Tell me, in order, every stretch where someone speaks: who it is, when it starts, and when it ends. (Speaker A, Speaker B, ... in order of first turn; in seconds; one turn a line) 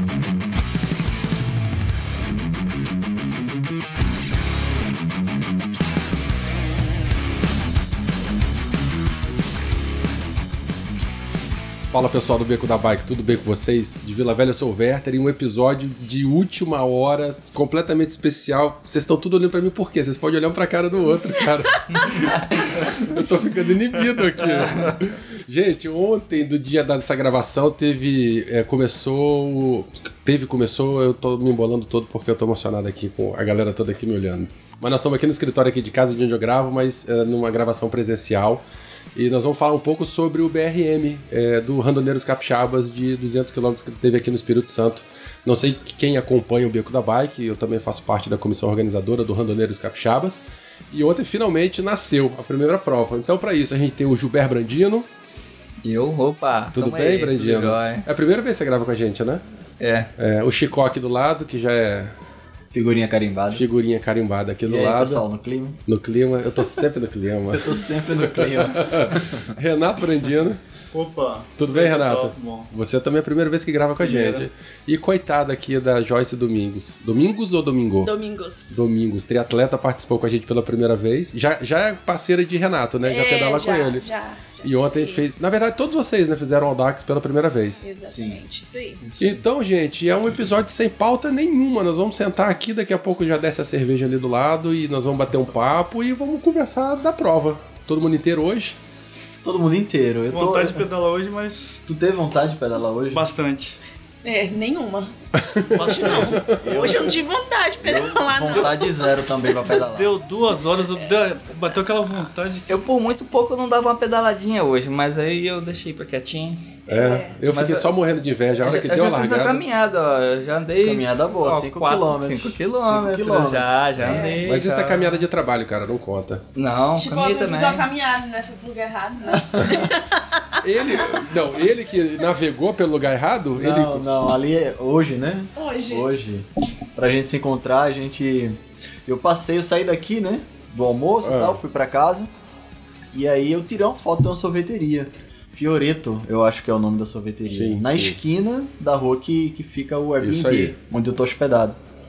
Speaker A: 11.9-38.6
Speaker B: 21.9-22.9
Speaker A: 39.1-55.1
Speaker B: 55.8-58.0
Speaker A: 56.7-59.4
Speaker B: 59.8-60.1
Speaker A: 60.2-62.1
Speaker C: 62.7-63.6
Speaker A: 63.5-65.2
Speaker C: 64.6-65.8
Speaker A: 65.9-70.6
Speaker C: 67.5-69.5
Speaker D: 70.9-72.7
Speaker A: 71.6-78.1
Speaker C: 74.0-74.5
Speaker E: 78.0-78.8
Speaker A: 78.7-84.0
Speaker E: 83.0-85.2
Speaker A: 84.6-87.9
Speaker E: 87.8-89.0
Speaker C: 88.1-88.4
Speaker A: 89.2-98.8
Speaker C: 99.4-100.8
Speaker D: 100.3-101.8
Speaker C: 101.8-103.2
Speaker D: 103.1-103.8
Speaker E: 104.2-105.1
Speaker A: 105.4-106.4
Speaker D: 105.7-106.5
Speaker E: 105.7-109.8
Speaker C: 106.6-107.2
Speaker C: 107.8-110.3
Speaker D: 109.8-112.8
Speaker B: 112.7-116.8
Speaker E: 116.9-117.4
Speaker A: 116.9-119.6
Speaker B: 117.5-117.9
Speaker B: 118.6-125.2
Speaker C: 120.8-124.1
Speaker A: 124.0-126.4
Speaker E: 124.0-124.5
Speaker B: 126.5-127.8
Speaker E: 127.0-130.4
Speaker C: 129.3-129.9
Speaker A: 130.6-134.0
Speaker E: 131.0-131.2
Speaker C: 133.6-142.3
Speaker E: 135.6-136.1
Speaker A: 141.2-141.6
Speaker C: 143.1-151.8
Speaker A: 147.5-148.2
Speaker A: 150.2-150.7